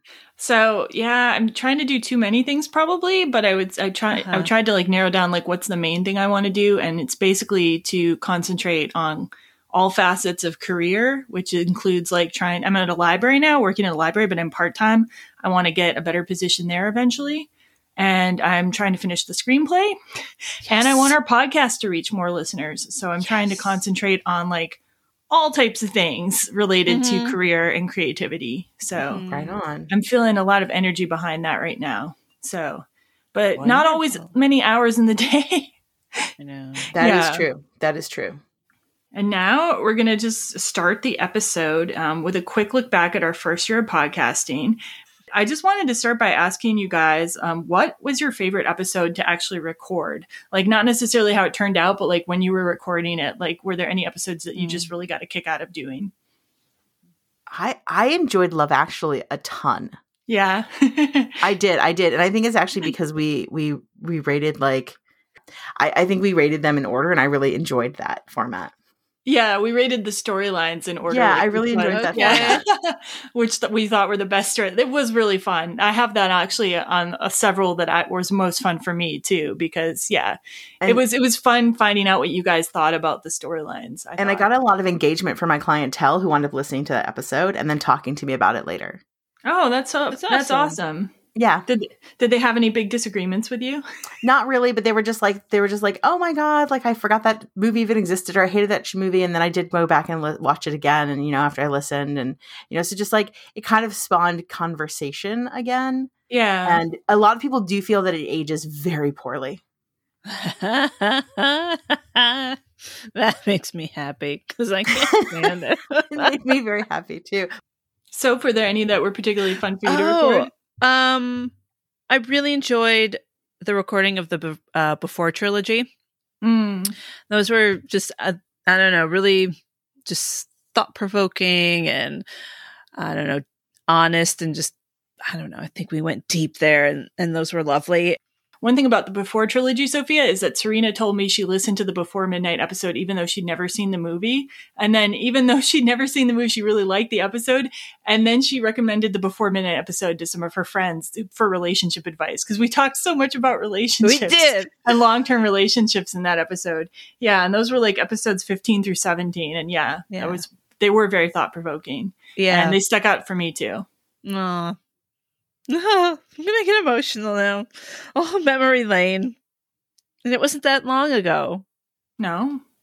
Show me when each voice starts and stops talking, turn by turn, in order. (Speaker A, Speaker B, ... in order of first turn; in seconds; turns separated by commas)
Speaker A: 0.4-20.0, Speaker B: 4.2-4.5, Speaker B: 20.7-21.1, Speaker A: 20.7-24.8, Speaker B: 23.2-23.7, Speaker A: 25.3-29.2, Speaker B: 26.9-27.4, Speaker B: 29.1-29.6, Speaker C: 29.3-29.9, Speaker A: 29.9-36.3, Speaker C: 33.6-33.9, Speaker B: 34.0-34.2, Speaker B: 36.4-36.9, Speaker A: 36.9-37.5, Speaker C: 36.9-38.4, Speaker A: 39.1-44.8, Speaker A: 45.3-56.1, Speaker B: 54.6-54.9, Speaker C: 57.5-59.9, Speaker A: 60.3-61.4, Speaker C: 61.4-65.0, Speaker C: 65.8-68.7, Speaker A: 69.3-84.5, Speaker C: 71.1-72.6, Speaker B: 71.9-72.6, Speaker C: 84.2-89.0, Speaker A: 89.5-91.1, Speaker B: 90.1-90.8, Speaker C: 91.3-91.7, Speaker A: 91.7-93.8, Speaker C: 94.2-106.1, Speaker A: 106.3-106.8, Speaker C: 106.7-109.6, Speaker B: 110.3-112.6, Speaker B: 113.1-116.3, Speaker C: 115.2-115.5, Speaker C: 116.1-117.5, Speaker A: 118.1-120.5, Speaker B: 119.8-121.5, Speaker B: 122.1-125.9, Speaker A: 126.4-127.0, Speaker B: 127.3-129.5, Speaker B: 130.1-132.2, Speaker B: 132.9-138.2, Speaker A: 138.6-163.9, Speaker B: 154.0-154.7, Speaker B: 160.1-160.4, Speaker B: 162.4-162.8, Speaker B: 164.2-164.8, Speaker B: 165.7-169.4, Speaker B: 170.2-171.6, Speaker A: 172.2-172.6